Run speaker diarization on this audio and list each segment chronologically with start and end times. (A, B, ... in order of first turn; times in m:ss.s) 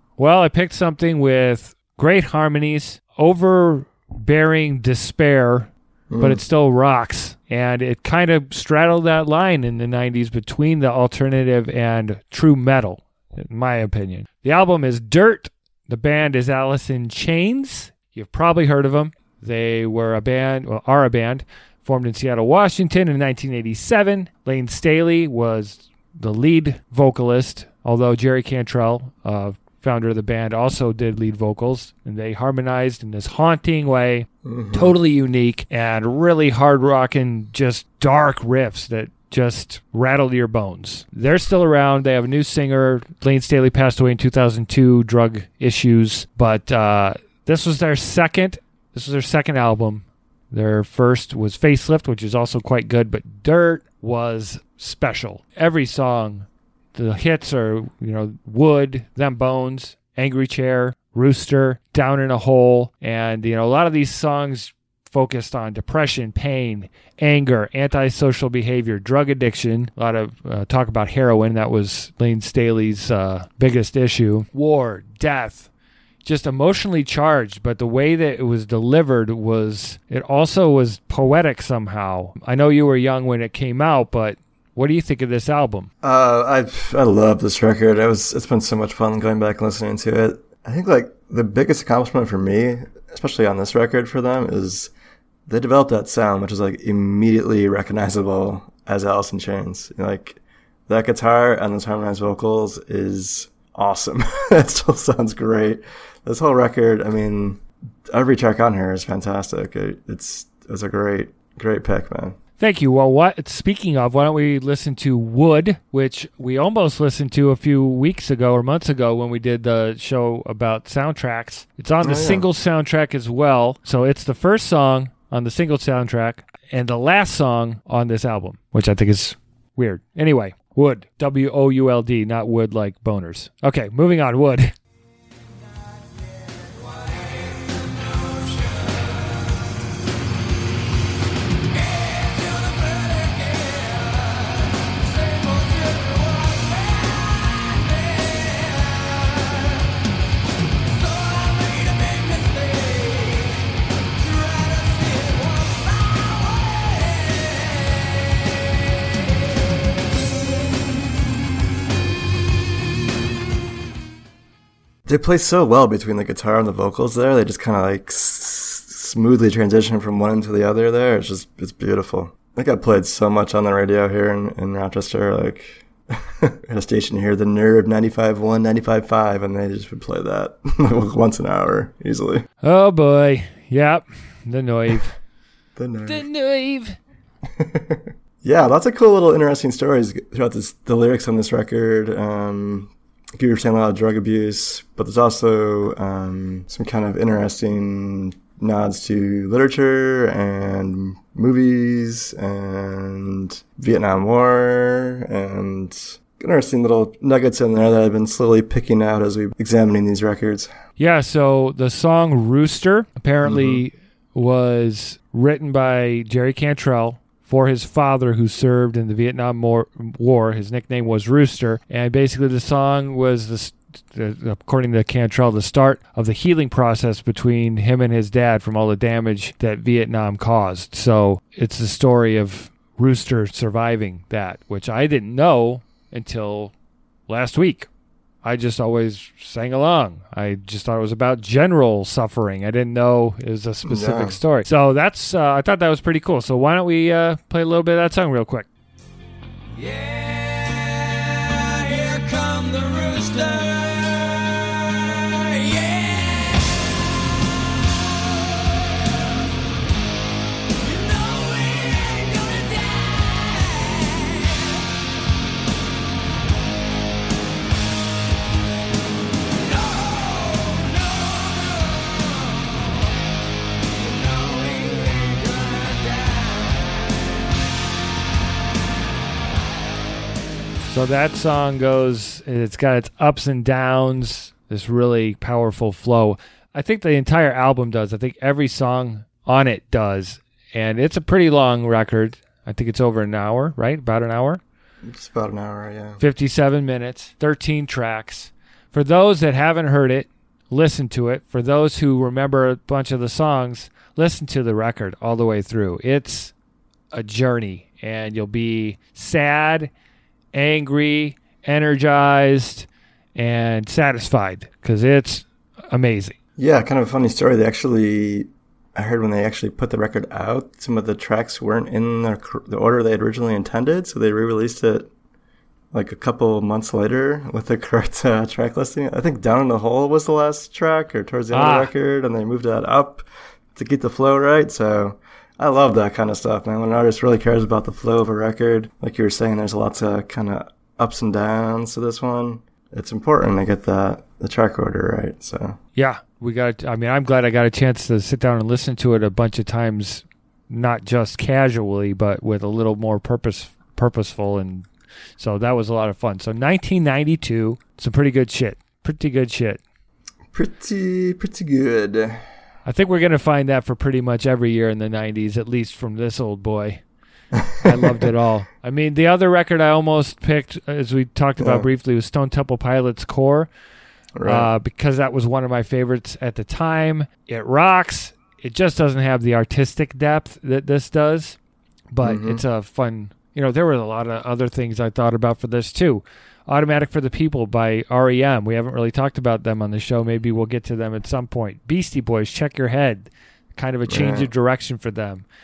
0:00.2-1:15.7 A
0:06.1-0:06.4 B
0:34.4-0:35.0 B
1:16.2-1:25.9 A
1:26.0-1:34.9 B
1:35.5-1:52.4 B
1:52.6-2:14.7 A
2:02.0-2:02.4 B
2:22.1-2:24.4 C
2:25.2-2:29.7 C
2:31.0-2:33.6 C
2:34.2-2:37.7 C
2:45.1-3:02.4 B
3:02.6-3:05.2 A
3:05.8-3:06.2 B
3:06.1-3:07.0 A
3:07.6-3:30.7 B
3:31.0-3:56.7 A
3:33.4-3:33.8 B
3:57.3-3:57.9 A
3:58.4-4:08.7 A
4:03.9-4:04.4 B
4:09.8-4:14.6 C
4:15.3-4:16.6 C
4:20.8-4:24.8 C
4:29.8-4:32.4 C
4:34.2-4:36.6 C
4:40.9-4:54.6 A
4:55.0-4:56.2 B
4:56.2-5:06.5 A
5:07.1-5:09.9 A
5:10.5-5:16.4 A
5:16.6-5:25.1 B
5:25.9-5:45.8 B
5:31.5-5:31.9 A
5:46.0-5:59.8 A
6:00.5-6:02.4 B
6:02.8-6:07.0 A
6:07.6-6:08.2 B
6:07.8-6:13.7 A
6:11.6-6:11.9 B
6:14.4-6:14.7 B
6:14.4-6:21.6 A
6:22.1-6:35.4 A
6:22.2-6:22.6 B
6:34.1-6:34.5 B